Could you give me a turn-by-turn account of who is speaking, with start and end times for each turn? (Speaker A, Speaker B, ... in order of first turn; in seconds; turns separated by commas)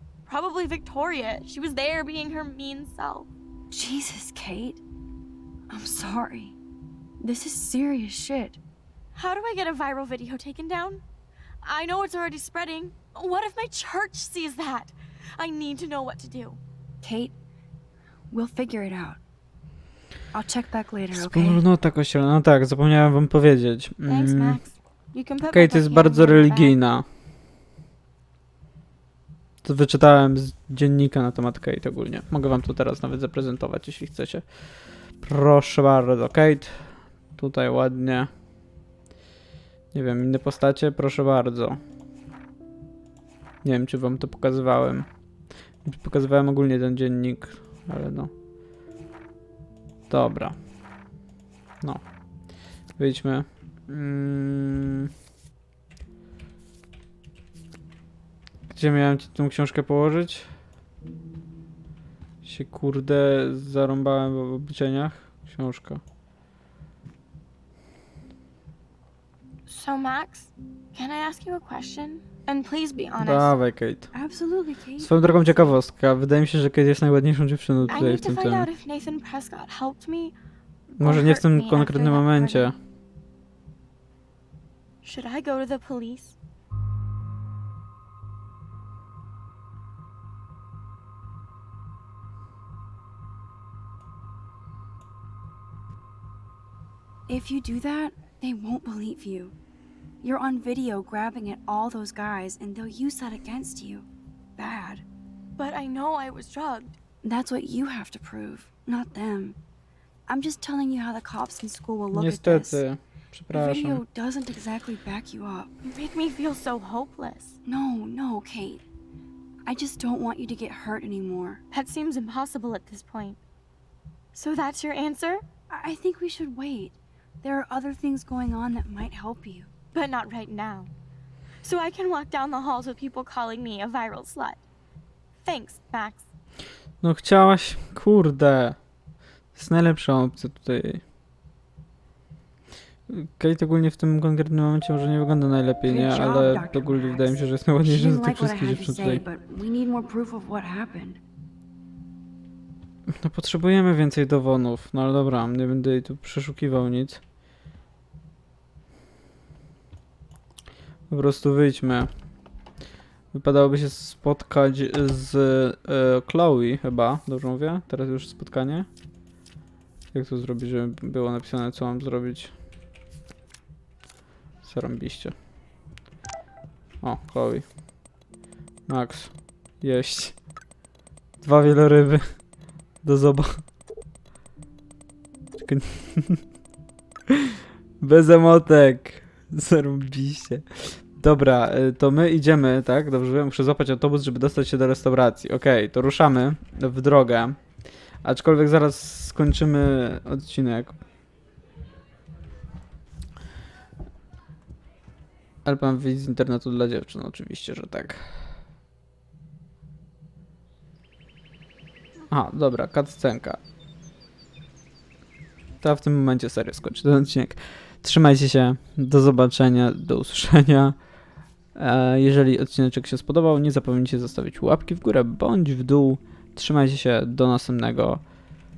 Speaker A: 0.2-3.3, Speaker B: 3.7-4.8, Speaker B: 5.7-6.5, Speaker B: 7.2-8.6, Speaker A: 9.1-11.0, Speaker A: 11.6-16.6, Speaker B: 17.0-17.3, Speaker B: 18.3-19.2, Speaker B: 20.3-21.6, Speaker C: 21.1-24.6, Speaker A: 24.1-26.8, Speaker C: 25.5-27.0, Speaker C: 29.6-38.3, Speaker C: 39.9-41.8, Speaker C: 43.6-45.1, Speaker C: 45.8-48.3, Speaker C: 50.1-50.6, Speaker C: 51.8-55.1, Speaker C: 58.7-60.5, Speaker C: 62.4-66.0, Speaker A: 69.7-73.5, Speaker C: 73.2-74.1, Speaker B: 74.1-75.8, Speaker C: 75.0-78.7, Speaker A: 77.9-80.3, Speaker C: 81.0-82.8, Speaker A: 81.0-82.7, Speaker A: 85.0-86.3, Speaker B: 97.3-99.5, Speaker B: 100.2-105.0, Speaker A: 105.6-107.0, Speaker B: 107.2-109.6, Speaker B: 110.3-112.8, Speaker C: 112.1-114.0, Speaker B: 113.5-115.7, Speaker A: 115.8-117.6, Speaker B: 117.7-118.8, Speaker B: 119.7-121.6, Speaker A: 121.7-123.4, Speaker A: 124.3-125.4, Speaker B: 125.7-129.7, Speaker A: 129.9-130.9, Speaker A: 131.6-134.6, Speaker A: 135.4-136.3, Speaker C: 137.0-138.8, Speaker C: 139.5-141.0, Speaker C: 143.1-149.2, Speaker B: 145.8-151.2, Speaker C: 153.1-157.2, Speaker C: 161.1-162.1, Speaker C: 163.3-168.9, Speaker C: 170.1-172.5, Speaker C: 174.6-175.3, Speaker C: 177.0-177.8, Speaker C: 178.9-180.4, Speaker C: 181.4-183.6, Speaker C: 185.6-186.4, Speaker C: 188.0-201.0, Speaker C: 205.6-208.3, Speaker C: 212.3-213.6, Speaker C: 215.8-221.0, Speaker C: 221.7-228.3